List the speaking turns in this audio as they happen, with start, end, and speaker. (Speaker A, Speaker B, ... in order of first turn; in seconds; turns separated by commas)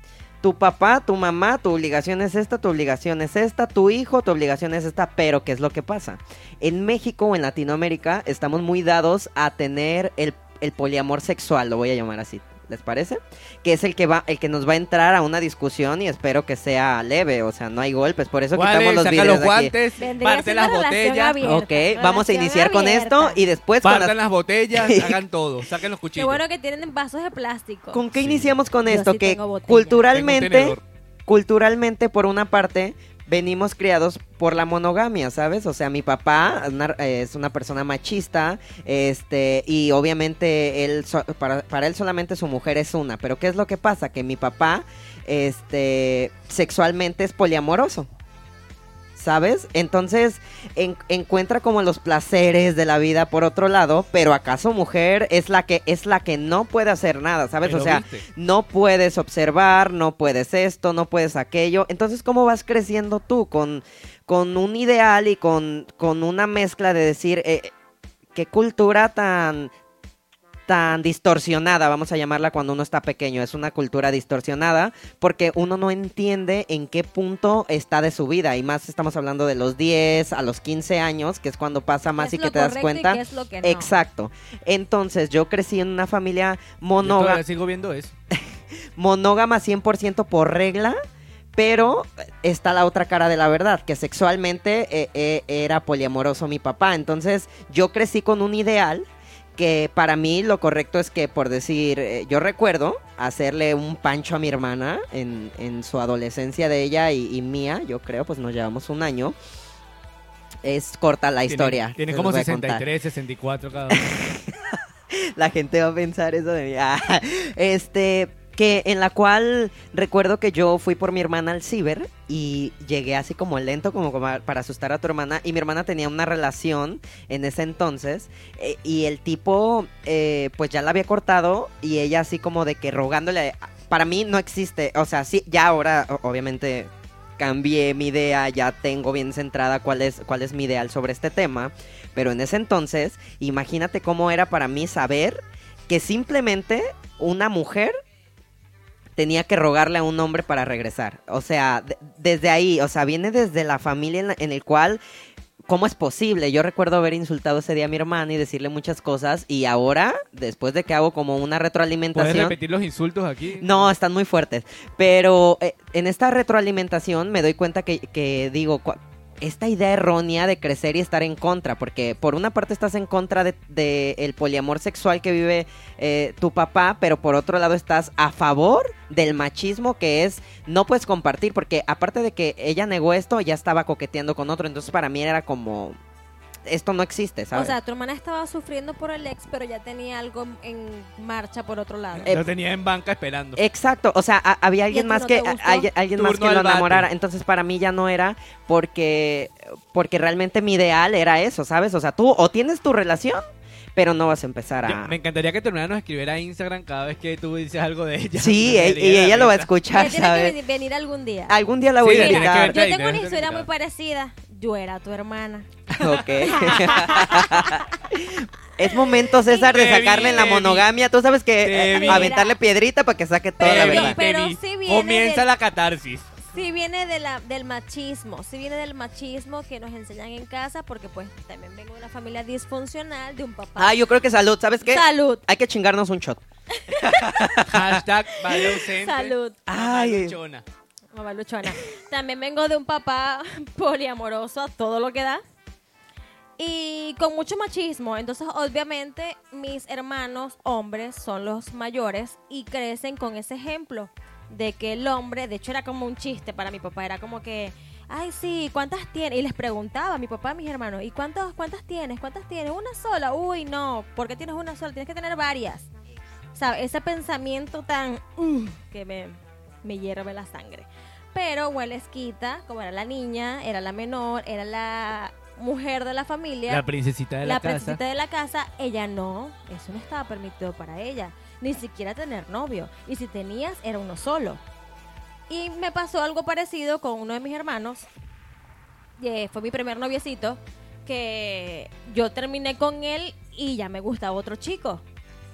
Speaker A: 0.4-19.7, Speaker B: 18.5-21.4, Speaker C: 20.0-23.4, Speaker A: 21.4-24.1, Speaker B: 23.8-26.4, Speaker A: 24.7-25.2, Speaker C: 26.1-28.0, Speaker A: 27.9-48.1, Speaker B: 28.1-28.5, Speaker C: 28.8-30.0, Speaker B: 30.1-30.8, Speaker A: 49.1-67.7, Speaker B: 57.6-58.2, Speaker A: 68.3-69.7, Speaker A: 70.7-87.4, Speaker C: 82.2-83.9, Speaker B: 87.0-88.1, Speaker A: 89.0-91.0, Speaker A: 91.5-109.3, Speaker A: 110.6-112.8, Speaker B: 111.5-114.1, Speaker A: 113.9-147.9, Speaker A: 149.2-155.0, Speaker A: 155.7-162.6, Speaker B: 162.1-163.9, Speaker A: 163.6-186.0, Speaker A: 186.6-187.7, Speaker C: 187.5-192.3, Speaker B: 192.2-193.6, Speaker A: 193.6-205.1, Speaker C: 194.9-195.9, Speaker B: 196.2-197.1, Speaker B: 204.8-209.7, Speaker A: 208.4-210.6, Speaker C: 209.9-211.6, Speaker A: 211.5-212.8, Speaker B: 212.0-213.7, Speaker C: 212.1-215.7, Speaker B: 215.9-217.4, Speaker A: 216.0-224.2, Speaker C: 216.4-217.9, Speaker C: 218.9-220.5, Speaker B: 219.6-220.9, Speaker B: 221.6-222.3, Speaker C: 221.9-222.6, Speaker C: 223.6-225.4, Speaker B: 223.6-226.5, Speaker C: 226.5-234.0, Speaker A: 233.8-238.0, Speaker C: 234.8-235.4, Speaker C: 236.7-237.5, Speaker B: 237.6-240.6, Speaker C: 238.5-239.6, Speaker A: 239.7-240.3, Speaker C: 241.1-245.4, Speaker C: 246.6-265.9, Speaker C: 266.5-276.8, Speaker B: 276.7-278.0, Speaker C: 277.4-284.6, Speaker C: 285.5-288.1, Speaker C: 289.2-295.0